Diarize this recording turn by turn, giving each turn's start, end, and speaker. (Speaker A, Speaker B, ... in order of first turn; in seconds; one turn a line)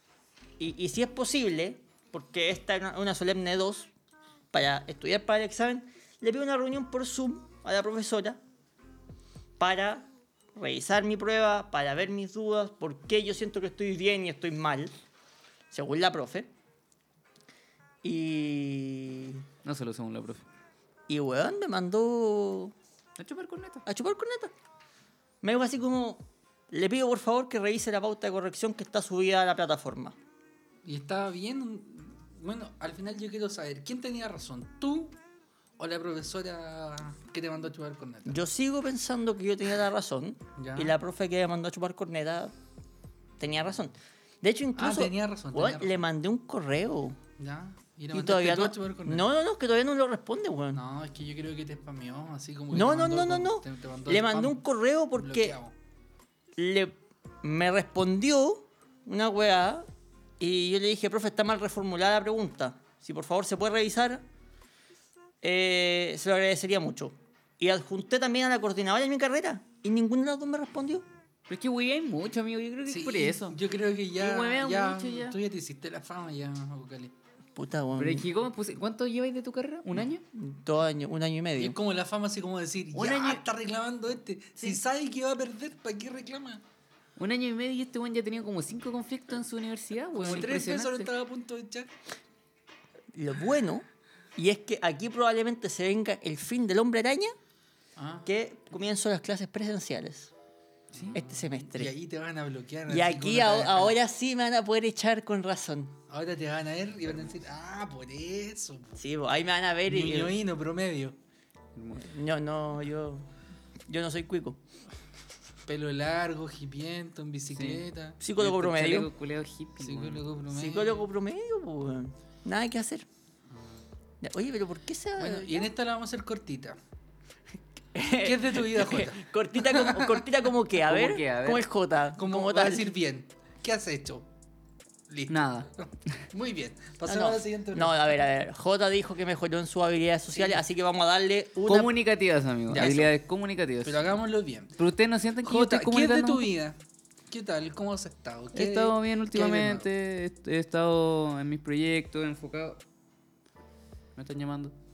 Speaker A: 0.6-3.9
Speaker A: 4.5-8.4
Speaker A: 9.6-14.9
Speaker A: 15.7-16.5
Speaker A: 18.0-19.4
Speaker B: 19.6-20.4
Speaker A: 21.1-22.7
Speaker B: 23.2-23.8
Speaker A: 23.9-24.5
Speaker A: 25.4-30.2
Speaker C: 30.8-35.2
Speaker C: 35.8-38.4
Speaker A: 38.2-42.5
Speaker C: 40.6-41.0
Speaker A: 43.4-47.2
Speaker C: 44.8-46.0
Speaker C: 47.4-49.2
Speaker A: 48.1-50.8
Speaker C: 50.7-54.6
Speaker A: 52.7-55.6
Speaker C: 55.1-55.7
Speaker A: 56.6-59.9
Speaker A: 60.4-64.2
Speaker A: 65.4-71.0
Speaker B: 71.5-73.6
Speaker C: 72.8-77.1
Speaker B: 74.2-75.4
Speaker A: 77.5-78.2
Speaker B: 78.0-80.2
Speaker A: 80.3-81.8
Speaker C: 81.6-86.6
Speaker B: 82.9-83.4
Speaker B: 87.2-91.1
Speaker C: 90.1-91.9
Speaker A: 93.1-97.3
Speaker C: 98.0-98.2
Speaker A: 98.2-100.3
Speaker C: 100.9-104.0
Speaker B: 100.9-101.2
Speaker A: 101.1-101.9
Speaker A: 102.9-105.9
Speaker C: 106.1-109.0
Speaker A: 109.0-110.3
Speaker C: 109.9-111.2
Speaker B: 111.8-112.1
Speaker A: 112.0-113.3
Speaker A: 113.9-114.6
Speaker C: 115.7-118.2
Speaker B: 117.5-117.8
Speaker A: 118.2-119.1
Speaker B: 118.4-120.2
Speaker C: 119.8-121.1
Speaker A: 120.5-123.0
Speaker C: 123.5-123.8
Speaker A: 124.2-125.7
Speaker C: 125.2-126.8
Speaker A: 127.9-132.9
Speaker C: 128.1-130.2
Speaker B: 130.7-131.7
Speaker C: 132.2-134.3
Speaker C: 135.1-138.0
Speaker B: 135.3-136.2
Speaker A: 137.1-141.9
Speaker C: 140.3-140.6
Speaker B: 141.6-144.0
Speaker C: 142.7-143.1
Speaker A: 142.8-143.1
Speaker C: 143.8-144.8
Speaker B: 144.8-146.5
Speaker C: 145.4-149.9
Speaker B: 148.5-152.8
Speaker B: 154.2-154.7